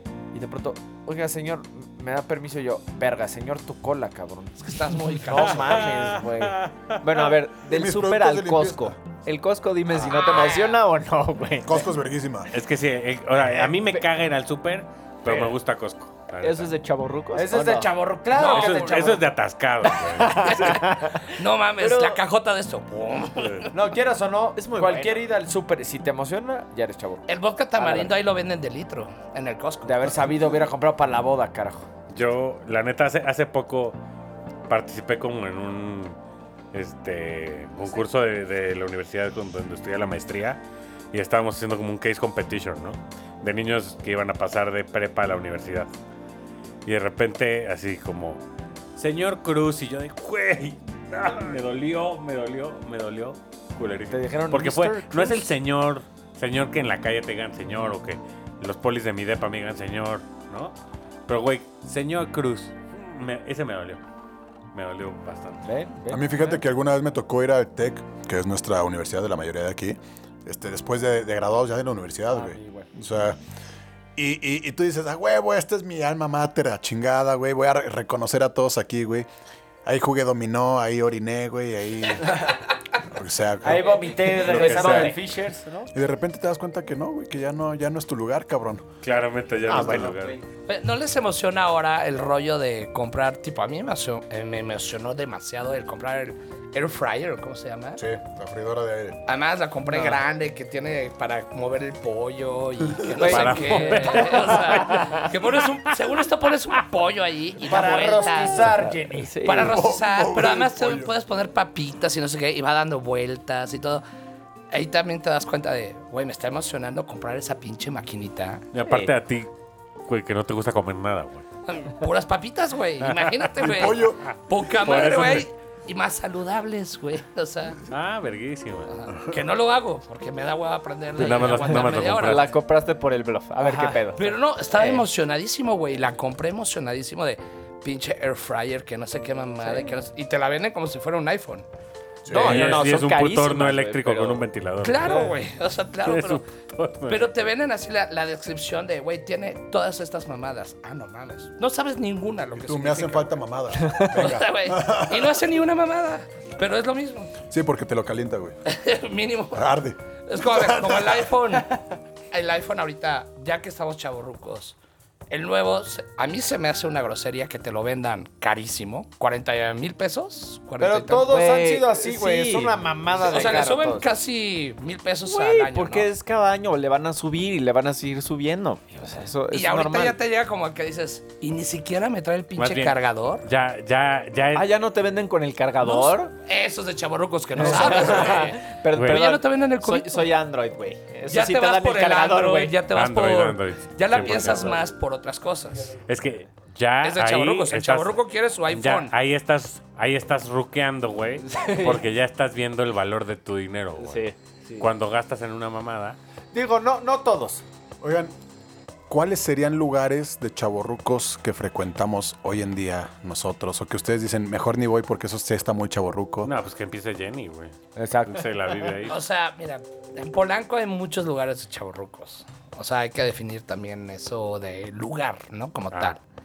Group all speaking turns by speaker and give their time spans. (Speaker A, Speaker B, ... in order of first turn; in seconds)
Speaker A: 0.3-6.6, 15.3-15.5, 17.3-19.3, 23.7-28.1, 29.9-31.9, 54.1-55.4, 65.6-66.5, 72.3-73.0, 83.6-85.9, 103.2-104.0, 107.7-109.5, 133.6-134.0, 170.8-174.1, 206.5-207.6, 218.0-218.9
Speaker B: 4.6-6.0, 10.1-10.8, 18.3-19.1, 20.4-23.8, 27.3-30.2, 90.7-98.0, 99.3-108.8, 109.4-114.0, 114.7-118.7, 121.7-127.8, 128.9-132.5, 134.2-141.7, 142.5-142.8, 144.8-146.4, 147.1-153.4, 154.1-157.3, 158.7-159.7, 160.3-161.7, 162.3-164.8, 165.3-171.3, 173.2-176.1, 179.5-183.4, 185.8-190.3, 191.3-195.9, 197.0-199.1, 219.1-226.2
Speaker C: 5.3-7.3, 12.5-16.7, 18.4-20.8, 23.4-23.7, 32.1-34.0, 34.7-36.2, 36.7-45.9, 46.9-48.4, 49.0-60.8, 61.3-64.0, 64.7-65.6, 84.4-85.2, 89.0-90.4, 103.2-106.0, 118.7-119.5, 120.1-121.5, 123.0-123.5, 124.6-125.5, 127.9-128.9, 131.2-132.5, 142.3-145.3, 146.0-147.4, 182.6-184.7, 187.9-188.4, 188.9-189.3, 192.9-194.8, 196.1-204.3, 204.8-206.2, 216.4-219.2, 225.9-226.2
Speaker D: 7.0-11.8, 13.6-14.0, 16.4-17.9, 20.0-21.3, 21.8-22.1, 24.6-25.2, 84.5-85.1, 89.7-90.4, 104.8-105.2, 108.7-109.8, 118.9-119.1, 131.2-135.0, 139.6-139.9, 142.3-144.5, 145.0-145.4, 153.8-154.2, 171.2-173.7, 175.3-180.2, 184.5-186.3, 187.6-192.8, 201.5-202.0, 204.0-204.9
Speaker E: 7.6-9.0, 11.7-12.5, 66.1-73.4, 74.2-79.3, 79.8-85.1, 85.9-88.9, 98.0-99.2, 109.6-111.1, 123.6-125.0, 142.2-142.7, 152.5-155.4, 157.5-158.6, 159.5-161.3, 208.0-208.3, 209.1-216.5